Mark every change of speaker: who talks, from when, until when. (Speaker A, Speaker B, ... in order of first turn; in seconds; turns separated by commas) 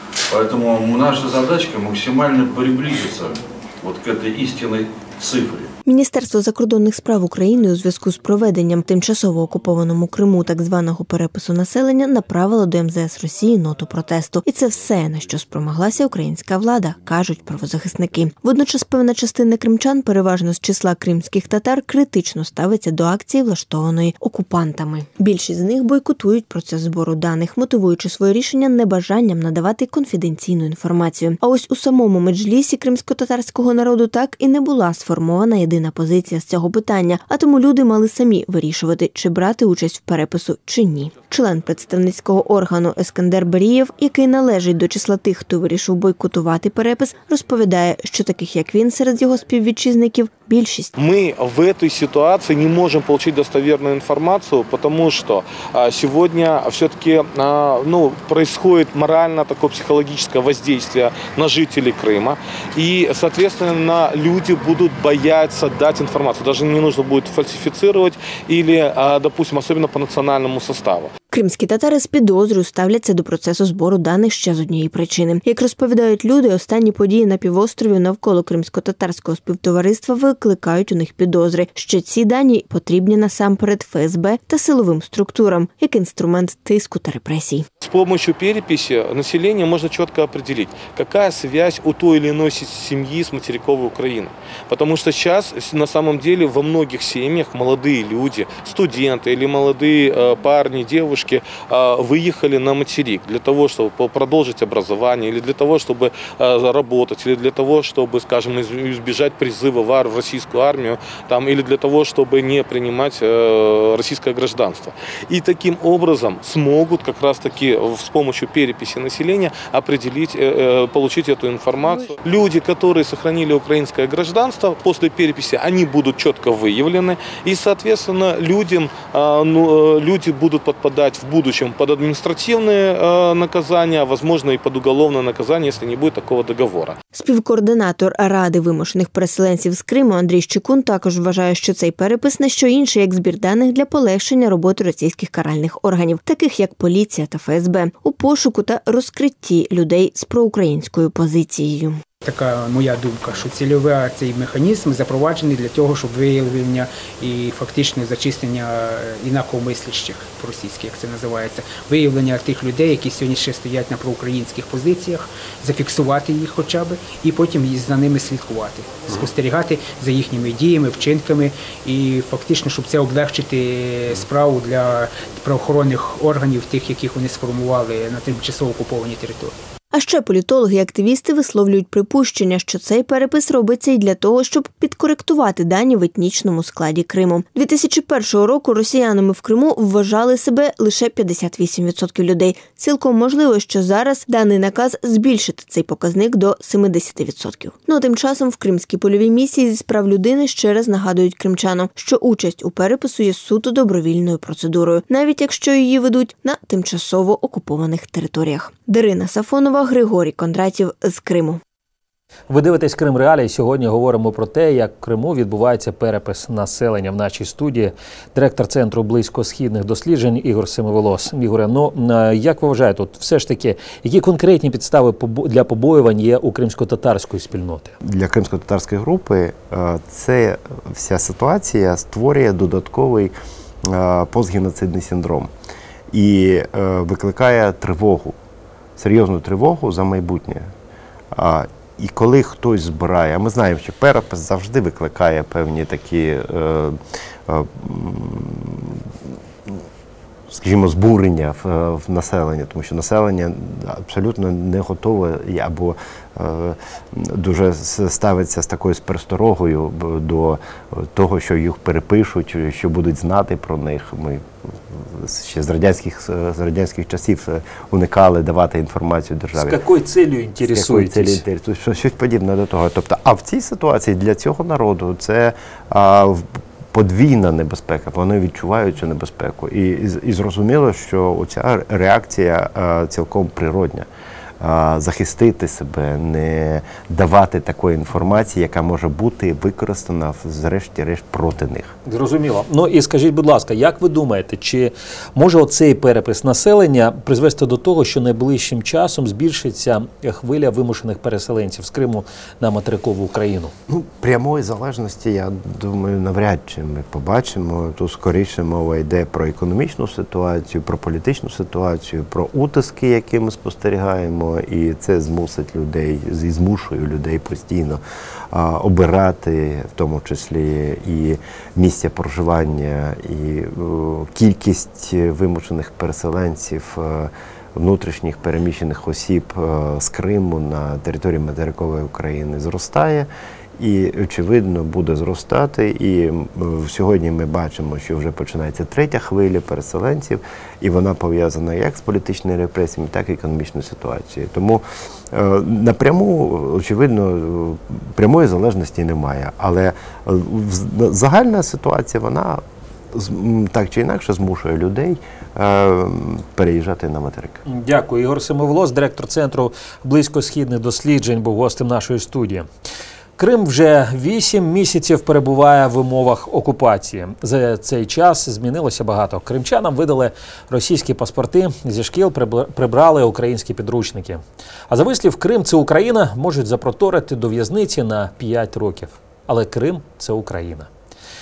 Speaker A: 0.3-5.7, Speaker B: 5.8-50.9, Speaker C: 51.0-71.1, Speaker B: 71.3-87.7, Speaker C: 87.8-137.0, Speaker B: 137.1-152.0, Speaker D: 152.2-179.6, Speaker B: 179.9-211.6, Speaker E: 212.5-227.9, Speaker F: 228.0-235.5, Speaker F: 236.1-238.4, Speaker F: 239.0-240.7, Speaker F: 241.3-249.8, Speaker F: 250.5-269.8, Speaker E: 269.6-271.4, Speaker F: 270.6-284.1, Speaker F: 284.6-291.9, Speaker E: 292.1-303.7, Speaker F: 303.9-357.6, Speaker E: 357.7-362.7, Speaker E: 363.4-380.9